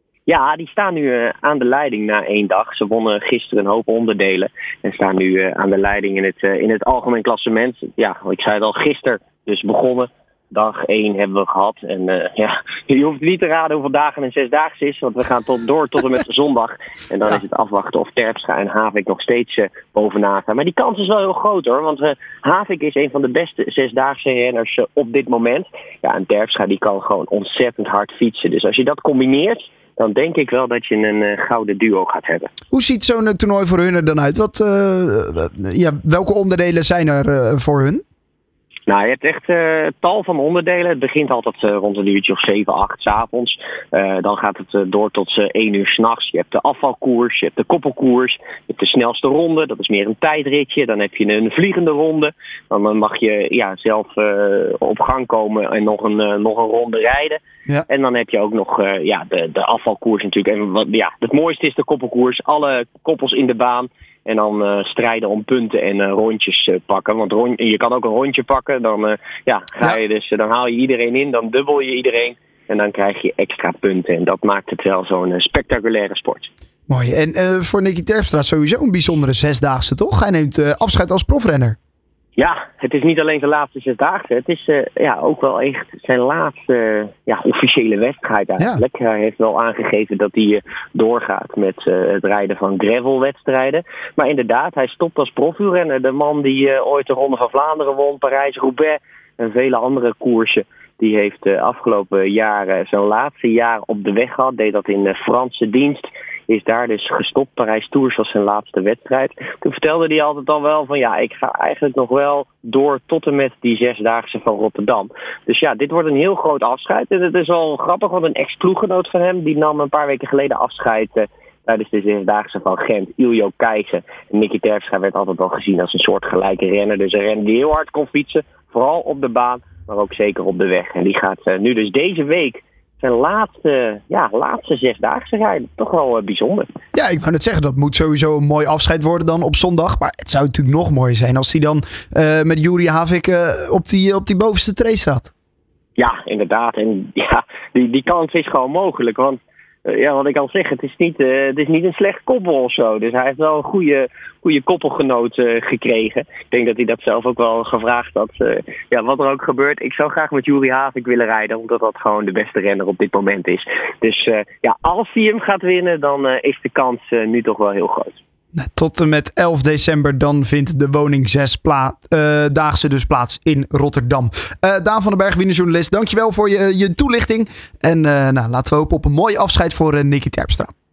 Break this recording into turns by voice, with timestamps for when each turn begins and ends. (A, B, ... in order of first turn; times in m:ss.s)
0:00.3-0:32.5 A
0:32.7-0:38.0 B
0:38.9-1:16.5 A
1:16.9-1:21.8 B
1:22.4-2:16.7 A
1:28.6-1:28.8 B
2:16.9-2:25.3 B
2:26.0-2:48.2 A
2:48.6-3:00.7 B